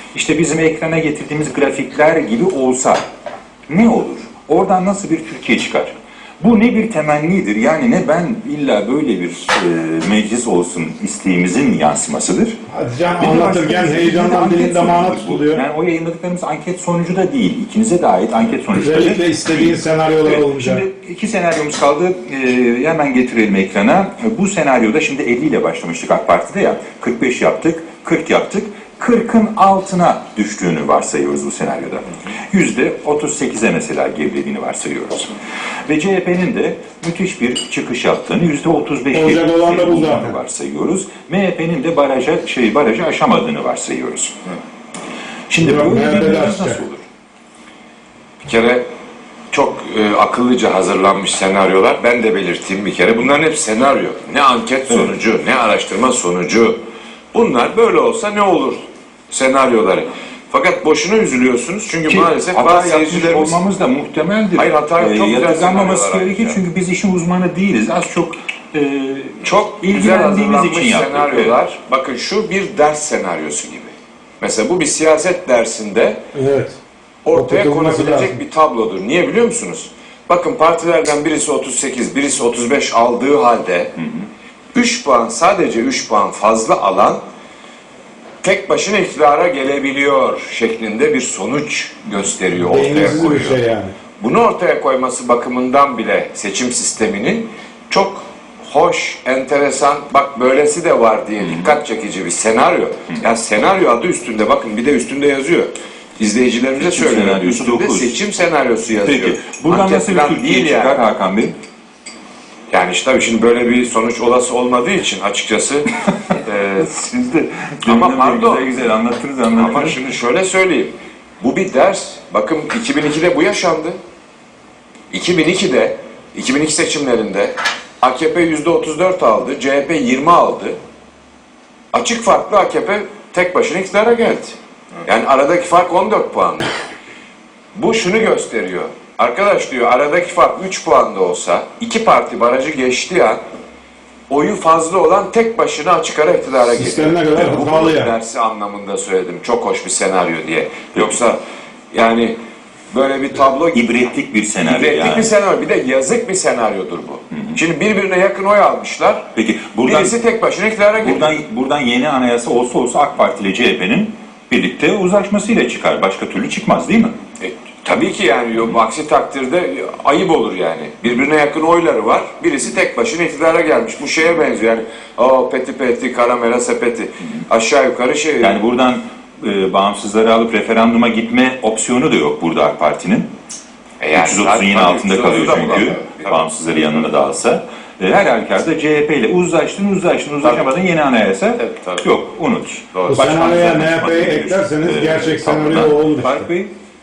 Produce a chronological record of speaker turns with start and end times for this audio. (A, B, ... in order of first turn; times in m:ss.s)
0:00.1-0:03.1 A
0:03.7-0:12.6 A
0:12.7-0:15.6 B
0:13.2-0:44.4 A
0:18.7-0:20.8 B
0:39.1-0:40.4 B
0:45.5-0:47.0 A
0:45.6-0:46.8 B
0:48.4-0:48.8 C
0:49.5-0:56.8 C
0:57.3-1:03.6 C
1:02.1-1:11.6 A
1:04.6-1:06.6 C
1:09.4-1:16.2 C
1:16.3-1:16.8 B
1:17.2-1:23.9 C
1:17.3-1:18.4 B
1:24.0-1:24.3 A
1:24.7-1:27.2 C
1:28.4-1:33.6 C
1:32.7-1:33.9 B
1:34.2-1:51.0 C
1:46.8-1:48.2 A
1:49.0-1:51.5 A
1:52.7-1:56.9 C
1:56.3-2:00.0 A
1:57.8-1:58.8 C
1:59.5-2:04.0 C
2:05.1-2:10.8 C
2:11.9-2:16.7 C
2:17.8-2:23.4 C
2:24.3-2:31.4 C
2:26.7-2:28.1 B
2:31.9-2:32.4 C
2:32.9-2:33.8 C
2:33.7-2:35.3 A
2:34.6-2:39.2 C
2:37.3-2:37.6 A
2:39.3-2:40.1 A
2:39.8-2:41.3 C
2:41.0-2:47.2 A
2:47.4-2:58.6 C
2:58.4-3:03.3 A
3:04.0-3:06.5 C
3:04.2-3:16.7 A
3:10.4-3:10.7 C
3:11.6-3:12.1 C
3:12.9-3:13.4 C
3:13.1-3:16.5 B